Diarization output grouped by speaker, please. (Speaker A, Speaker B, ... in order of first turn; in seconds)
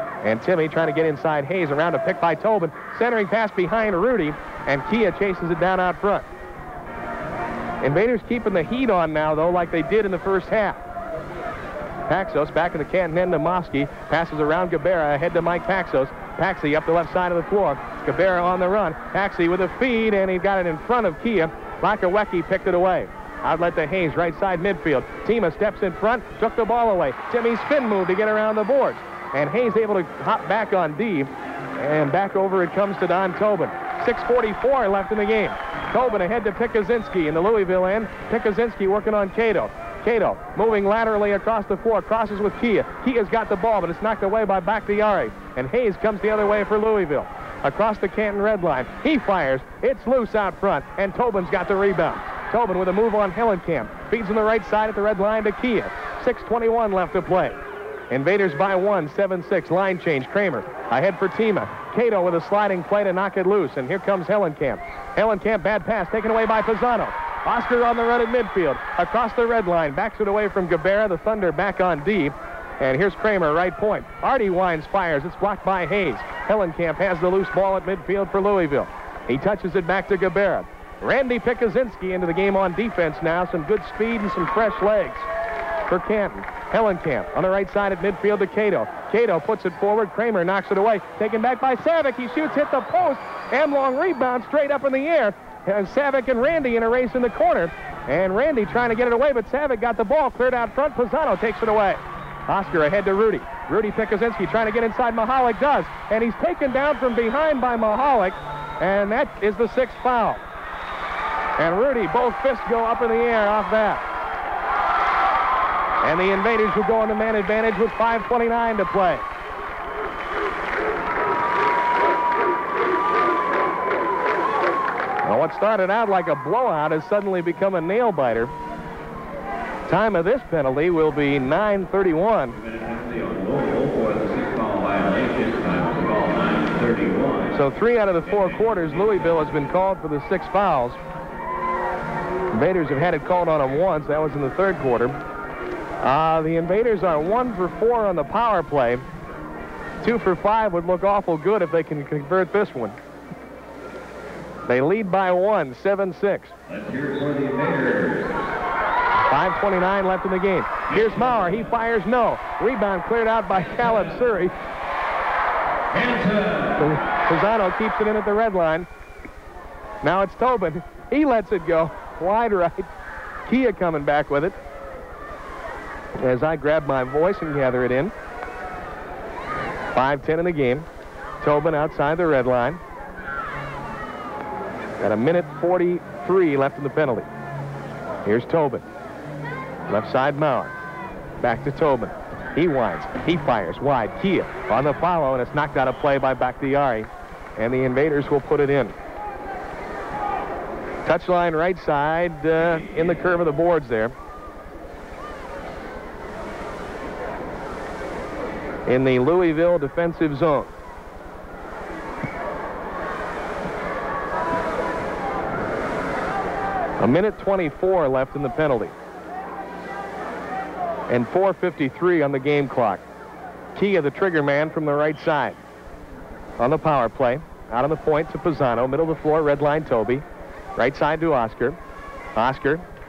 Speaker A: 0.2-6.3, 7.8-10.8, 12.1-57.6, 58.1-85.3, 85.9-110.4, 111.6-114.0, 116.0-119.2, 125.2-128.5, 129.9-132.6, 137.5-141.0, 142.5-145.2, 146.0-149.0, 150.0-153.0, 154.7-156.5, 159.3-164.5, 166.8-168.9, 170.0-172.9, 173.4-174.5, 176.2-178.1, 179.9-180.8, 181.4-182.8, 185.0-187.3, 188.2-188.8, 189.9-190.7, 191.4-198.9, 201.0-204.1, 208.9-210.7, 217.0-218.9, 221.1-223.0, 223.7-225.6, 226.6-230.2, 230.8-231.8, 232.3-232.8
Speaker B: 132.5-137.7, 138.2-139.7, 156.7-158.4, 160.9-161.6, 165.9-166.9